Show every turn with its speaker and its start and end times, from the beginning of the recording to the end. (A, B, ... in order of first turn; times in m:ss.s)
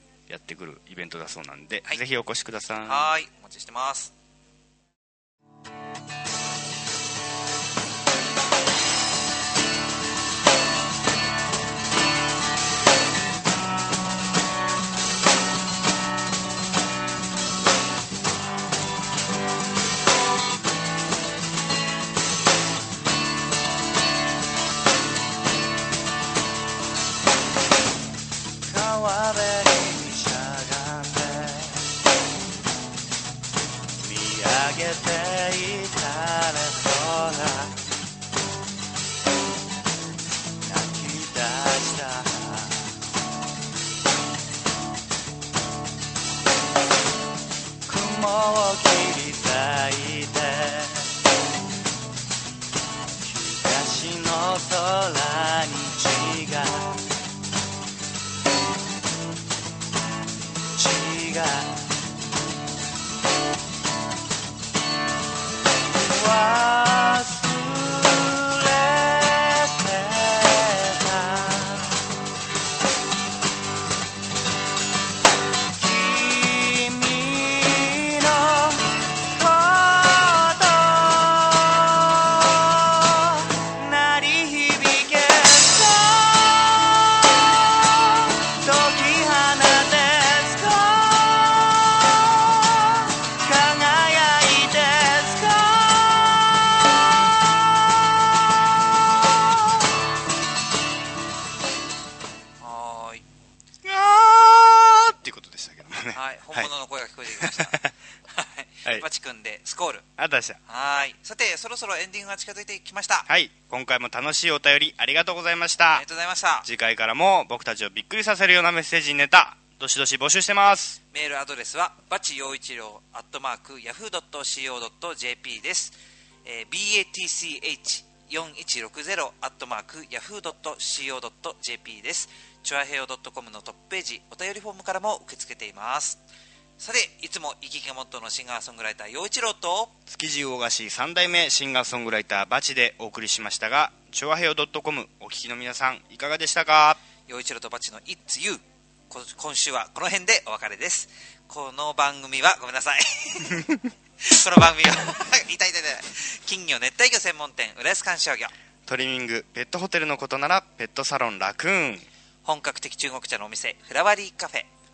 0:00.3-0:03.1 A
0:02.8-0:04.1 B
0:28.7-0:31.7 C
0:28.8-0:30.3 A
0:34.1-0:36.1 A
0:34.1-0:37.6 C
0:40.7-0:42.4 C
0:47.9-0:50.8 C
0:48.6-0:48.9 A
0:53.4-0:56.9 C
0:53.7-0:54.5 A
1:00.8-1:01.7 C
1:06.1-1:11.8 C
1:15.8-1:18.8 C
1:19.3-1:27.0 C
1:28.1-1:32.0 C
1:32.8-1:36.1 C
1:42.6-1:43.2 B
1:43.8-1:46.7 A
1:46.1-1:47.8 B
1:47.4-1:47.9 A
1:48.3-1:50.1 B
1:50.2-1:50.6 A
1:50.7-1:53.3 B
1:53.3-1:56.0 A
1:55.9-1:56.7 B
1:56.6-2:01.0 A
2:01.1-2:16.2 B
2:16.8-2:19.9 B
2:20.1-2:27.0 A
2:27.3-2:33.7 B
2:34.2-2:38.5 B
2:38.9-2:42.1 A
2:42.4-2:44.7 B